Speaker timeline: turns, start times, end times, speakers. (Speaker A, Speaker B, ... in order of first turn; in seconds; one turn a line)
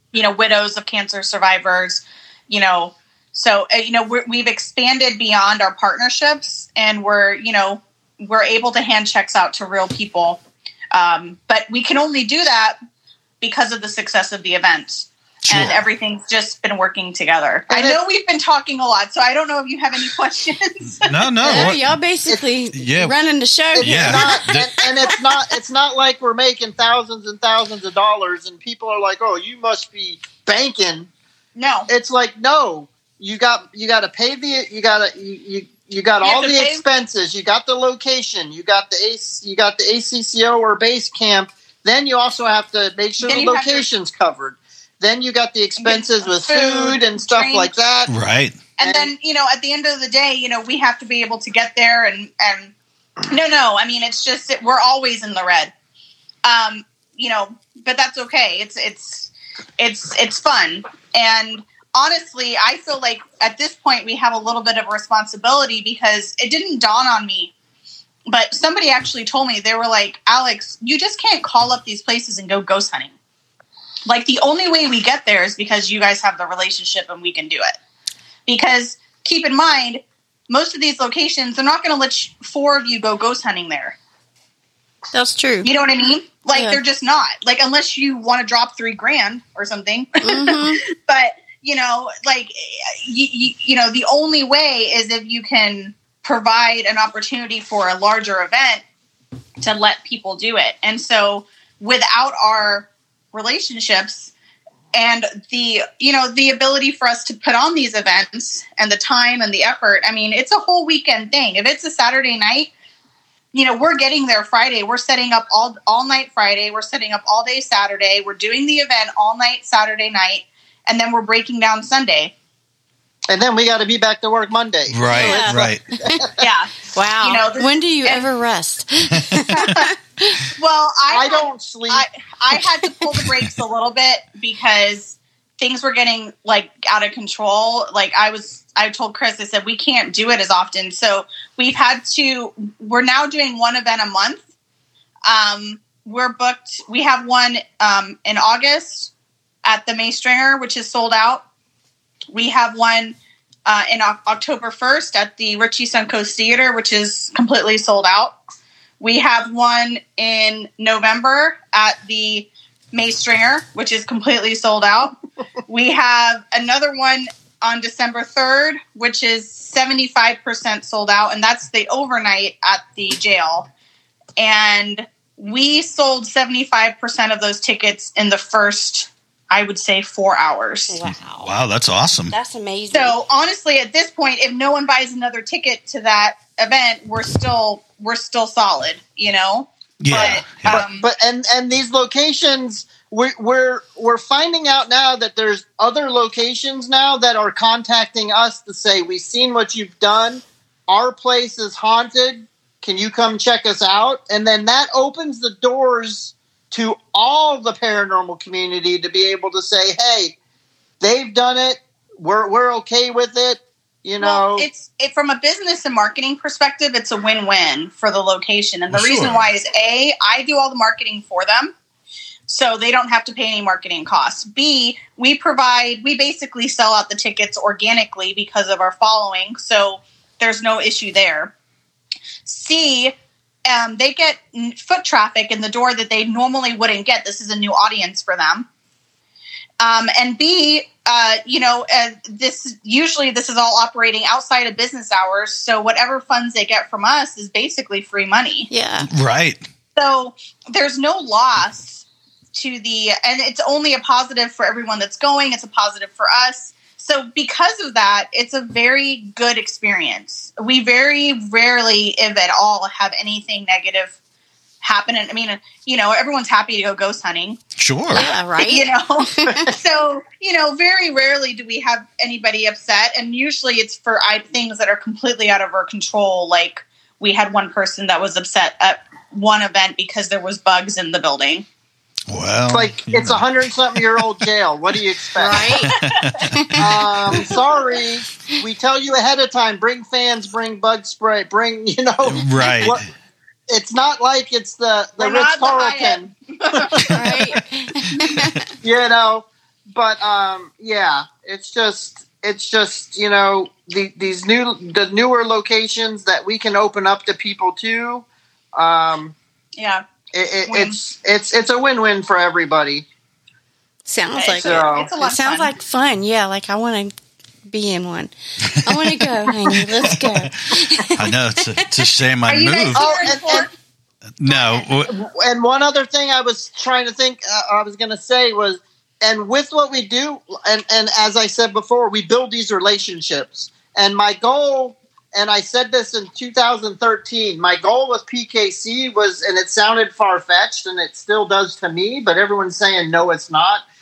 Speaker A: 0.1-10.4
Speaker A: 10.9-12.8
Speaker A: 13.4-21.1
Speaker B: 15.4-15.8
Speaker C: 17.7-18.0
Speaker B: 21.0-21.8
Speaker D: 21.4-24.5
Speaker B: 22.7-23.1
Speaker B: 23.8-24.7
Speaker C: 23.8-31.1
Speaker A: 31.6-31.9
Speaker C: 31.9-48.1
Speaker A: 36.2-36.8
Speaker A: 43.2-43.9
Speaker A: 45.8-47.7
Speaker B: 48.1-48.6
Speaker A: 48.8-52.7
Speaker C: 48.8-49.1
Speaker A: 53.3-55.7
Speaker A: 56.4-67.5
Speaker A: 68.3-73.1
Speaker A: 74.1-77.8
Speaker A: 78.5-84.0
Speaker D: 85.1-85.7
Speaker A: 85.6-98.8
Speaker D: 86.5-86.8
Speaker D: 90.2-90.8
Speaker A: 99.6-104.3
Speaker A: 104.9-112.7
Speaker A: 113.5-122.3
Speaker C: 123.3-126.3
Speaker B: 124.9-125.8
Speaker D: 125.1-126.3
Speaker A: 126.4-128.3
Speaker D: 126.9-130.4
Speaker B: 129.1-129.4
Speaker A: 129.5-129.9
Speaker A: 130.6-144.4
Speaker C: 131.1-132.1
Speaker A: 145.3-149.1
Speaker A: 149.6-151.4
Speaker A: 152.3-158.3
Speaker A: 159.0-165.2
Speaker A: 165.7-173.7
Speaker A: 174.4-181.0
Speaker D: 180.9-181.5
Speaker B: 181.4-182.3
Speaker D: 182.3-183.2
Speaker A: 182.9-191.1
Speaker B: 190.0-190.8
Speaker C: 190.1-210.3
Speaker C: 211.0-214.7
Speaker A: 214.2-221.7
Speaker B: 218.9-219.4
Speaker A: 222.5-231.5
Speaker A: 232.4-233.1
Speaker A: 233.7-238.7
Speaker A: 239.8-248.7
Speaker D: 248.7-249.1
Speaker B: 249.1-249.6
Speaker A: 249.9-264.1
Speaker A: 264.8-267.6
Speaker B: 267.8-268.3
Speaker D: 268.1-269.7
Speaker A: 268.6-281.6
Speaker B: 282.3-283.4
Speaker C: 282.7-285.7
Speaker D: 285.4-285.9
Speaker A: 285.6-286.2
Speaker B: 285.8-286.6
Speaker D: 286.6-287.6
Speaker C: 286.8-293.0
Speaker B: 292.2-293.0
Speaker C: 293.7-297.2
Speaker A: 295.2-297.1
Speaker D: 297.1-298.6
Speaker C: 298.8-309.4
Speaker A: 309.8-310.0
Speaker C: 310.3-313.0
Speaker A: 310.7-311.0
Speaker D: 314.1-317.1
Speaker A: 314.4-315.7
Speaker C: 314.6-315.1
Speaker D: 317.7-322.1
Speaker B: 318.6-320.4
Speaker B: 321.1-323.2
Speaker A: 322.4-323.7
Speaker C: 322.9-323.7
Speaker B: 324.4-325.1
Speaker C: 325.0-343.8